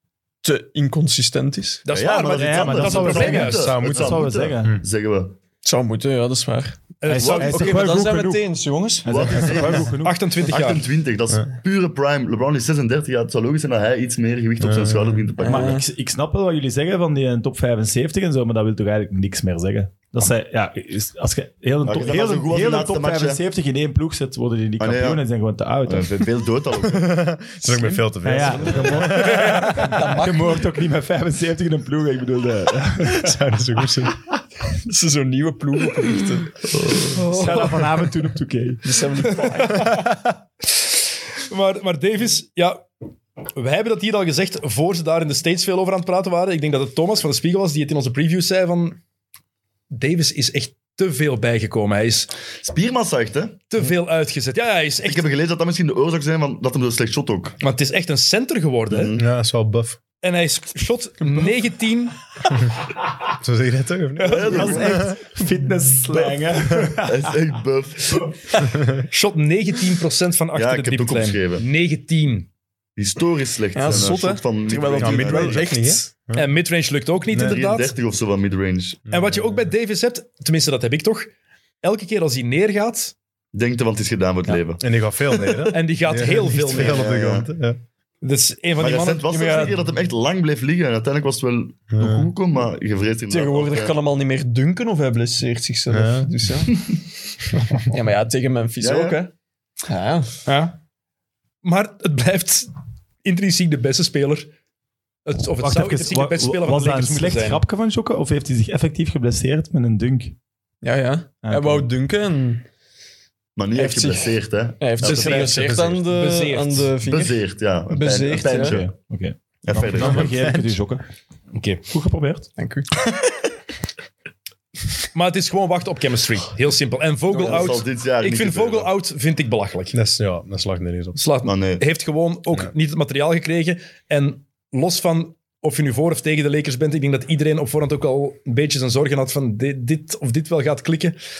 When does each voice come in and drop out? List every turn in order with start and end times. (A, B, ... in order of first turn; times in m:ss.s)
0:00.4-0:01.8 A
0:01.8-0:03.7 B
0:01.9-0:05.3 C
0:02.4-0:04.8 D
0:02.9-0:04.8 E
0:05.6-0:09.6 A
0:07.0-0:07.8 B
0:07.0-0:08.4 D
0:09.0-0:10.2 D
0:09.1-0:15.8 C
0:10.0-0:10.8 B
0:14.6-0:15.3 E
0:15.4-0:15.9 A
0:15.5-0:26.3 D
0:21.8-0:23.4 C
0:24.8-0:25.2 C
0:25.8-0:27.3 C
0:26.8-0:30.0 E
0:28.2-0:33.3 D
0:28.7-0:30.7 A
0:33.0-0:34.2 E
0:34.9-0:36.6 A
0:37.2-0:38.1 B
0:37.2-0:38.9 D
0:38.8-0:40.0 A
0:39.4-0:39.9 B
0:39.8-0:40.2 D
0:40.7-0:41.0 B
0:41.5-0:42.9 B
0:43.6-0:49.0 B
0:49.9-0:52.3 B
0:52.6-0:53.6 C
0:53.7-0:55.2 B
0:55.0-0:57.6 C
0:57.6-0:59.2 B
0:58.9-0:59.2 C
0:59.2-1:00.0 E
1:00.2-1:02.2 B
1:03.4-1:05.2 E
1:04.2-1:04.9 B
1:04.3-1:05.1 C
1:04.5-1:07.3 D
1:06.1-1:06.4 C
1:07.0-1:08.3 C
1:09.1-1:12.5 B
1:10.5-1:11.7 C
1:13.0-1:15.7 C
1:13.7-1:16.1 A
1:15.0-1:16.5 E
1:16.3-1:18.0 B
1:17.3-1:17.6 E
1:17.3-1:19.0 C
1:19.1-1:21.3 B
1:19.1-1:19.7 E
1:21.8-1:23.1 B
1:23.5-1:25.7 C
1:24.5-1:27.8 E
1:25.7-1:27.0 B
1:26.7-1:27.5 C
1:28.2-1:29.2 B
1:28.8-1:34.0 C
1:29.3-1:29.8 A
1:31.9-1:32.3 E
1:33.3-1:37.0 A
1:35.9-1:36.3 E
1:37.8-1:39.3 A
1:38.8-1:39.2 C
1:39.9-1:40.4 A
1:40.4-1:40.8 B
1:41.6-1:42.7 B
1:43.2-1:44.5 B
1:45.2-1:47.6 B
1:45.6-1:50.3 D
1:50.8-1:52.6 A
1:51.4-1:51.9 D
1:53.6-1:54.9 C
1:53.7-1:58.8 A
1:55.0-1:56.1 E
1:55.0-1:55.8 D
1:55.0-1:56.9 B
1:57.0-1:58.9 C
1:58.5-2:01.0 D
1:59.6-2:00.6 C
2:01.5-2:01.9 B
2:01.9-2:02.5 D
2:02.6-2:03.2 A
2:05.1-2:10.0 B
2:07.4-2:07.7 A
2:07.4-2:08.9 C
2:09.9-2:11.2 E
2:11.1-2:21.2 B
2:11.4-2:11.8 C